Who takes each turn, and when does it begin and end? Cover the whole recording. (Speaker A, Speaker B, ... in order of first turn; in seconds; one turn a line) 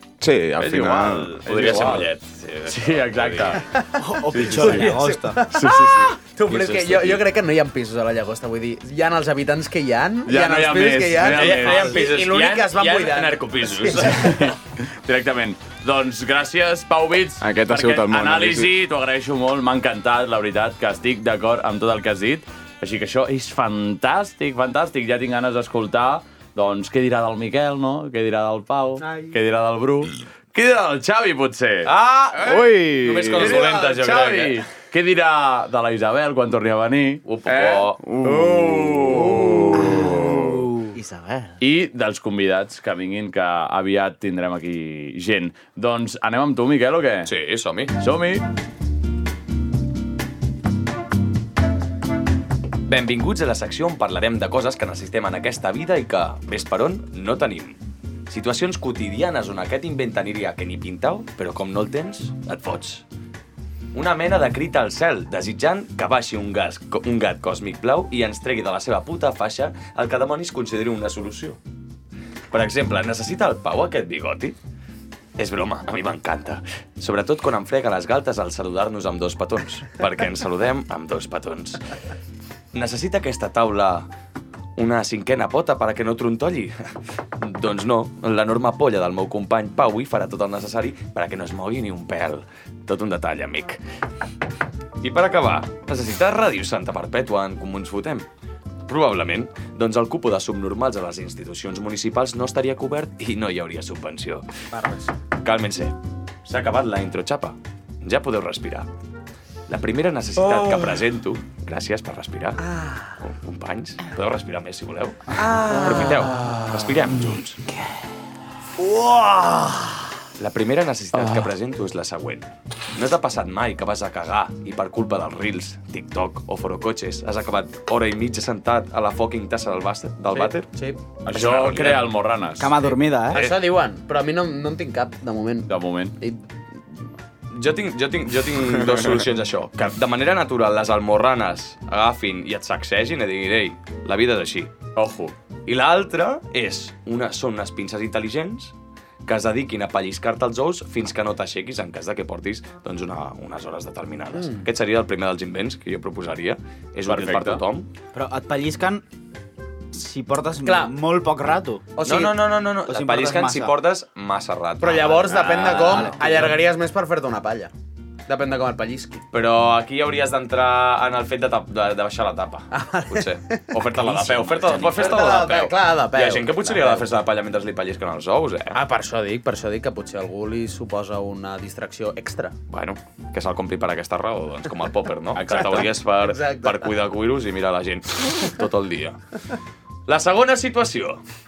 Speaker A: 0.2-2.0
Speaker B: 0.6-3.6
Speaker C: 1.4-2.1
Speaker C: 2.7-3.6
Speaker D: 3.7-14.4
Speaker E: 4.0-5.4
Speaker C: 4.3-5.0
Speaker C: 5.5-6.1
Speaker B: 6.5-7.2
Speaker C: 10.2-12.0
Speaker B: 11.2-14.3
Speaker C: 13.8-31.9
Speaker A: 17.4-18.7
Speaker D: 29.0-29.3
Speaker B: 31.8-34.6
Speaker A: 32.4-33.6
Speaker C: 33.4-40.4
Speaker B: 37.2-38.0
Speaker A: 38.0-40.6
Speaker E: 40.9-41.5
Speaker C: 41.6-47.3
Speaker B: 47.2-47.9
Speaker C: 48.0-48.4
Speaker B: 52.9-63.0
Speaker B: 63.9-71.6
Speaker B: 72.5-74.6
Speaker B: 75.4-81.8
Speaker B: 82.7-84.1
Speaker B: 84.8-86.8
Speaker B: 87.4-93.8
Speaker B: 95.0-98.3
Speaker B: 98.9-104.5
Speaker D: 104.7-105.1
Speaker B: 105.4-108.9
Speaker B: 109.7-112.6
Speaker D: 110.4-111.0
Speaker D: 112.6-113.1
Speaker B: 113.2-117.6
Speaker D: 115.3-116.5
Speaker D: 118.8-119.9
Speaker B: 120.4-130.7
Speaker C: 121.1-121.5
Speaker D: 130.3-131.0
Speaker B: 131.2-132.1
Speaker C: 131.2-132.9
Speaker E: 132.6-133.4
Speaker B: 133.3-133.6
Speaker D: 133.3-135.7
Speaker C: 135.7-136.1
Speaker B: 137.5-144.7
Speaker C: 144.9-145.3
Speaker B: 145.7-148.7
Speaker B: 149.2-157.9
Speaker D: 154.3-154.7
Speaker C: 157.1-157.6
Speaker E: 158.1-159.0
Speaker E: 159.9-161.8
Speaker D: 160.6-160.9
Speaker D: 162.0-162.4
Speaker B: 162.0-166.5
Speaker E: 162.8-163.8
Speaker D: 164.8-167.7
Speaker E: 165.3-166.5
Speaker D: 168.3-169.2
Speaker B: 169.3-178.8
Speaker D: 172.7-177.1
Speaker E: 174.0-175.0
Speaker D: 178.7-182.5
Speaker B: 182.7-189.2
Speaker C: 185.3-185.9
Speaker D: 185.5-186.9
Speaker B: 190.1-191.2